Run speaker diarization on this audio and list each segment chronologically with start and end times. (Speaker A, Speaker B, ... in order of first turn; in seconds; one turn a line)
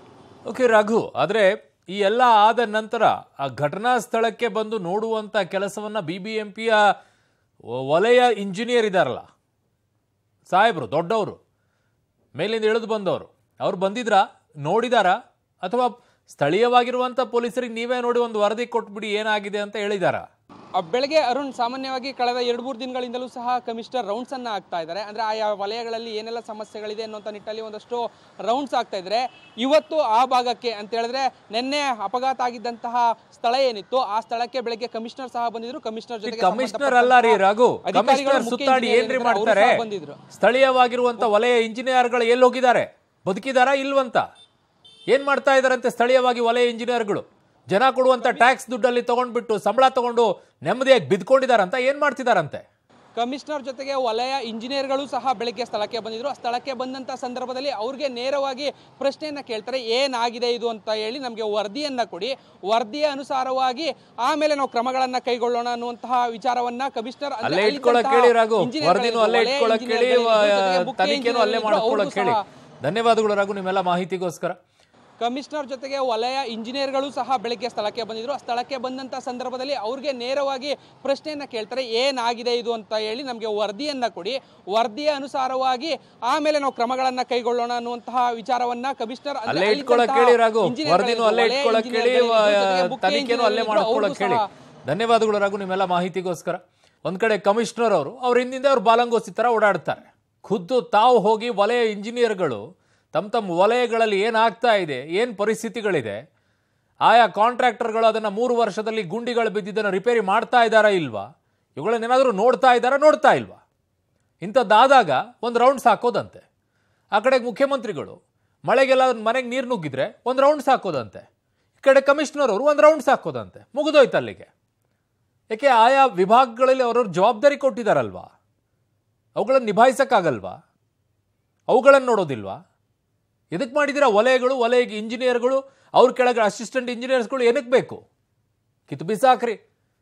Speaker A: 0.5-6.9
Speaker A: 7.7-9.3
Speaker A: 10.5-11.4
Speaker A: 12.3-20.3
Speaker B: 20.8-40.2
Speaker A: 36.2-39.8
Speaker A: 40.3-44.2
Speaker A: 45.1-52.6
Speaker B: 53.2-72.4
Speaker A: 67.4-74.6
Speaker B: 75.2-94.5
Speaker A: 89.5-106.2
Speaker A: 107.1-113.6
Speaker A: 114.4-116.4
Speaker A: 117.1-121.2
Speaker A: 121.8-124.5
Speaker A: 125.5-128.3
Speaker A: 129.4-130.6
Speaker A: 131.7-132.6
Speaker A: 133.5-138.0
Speaker A: 138.9-139.6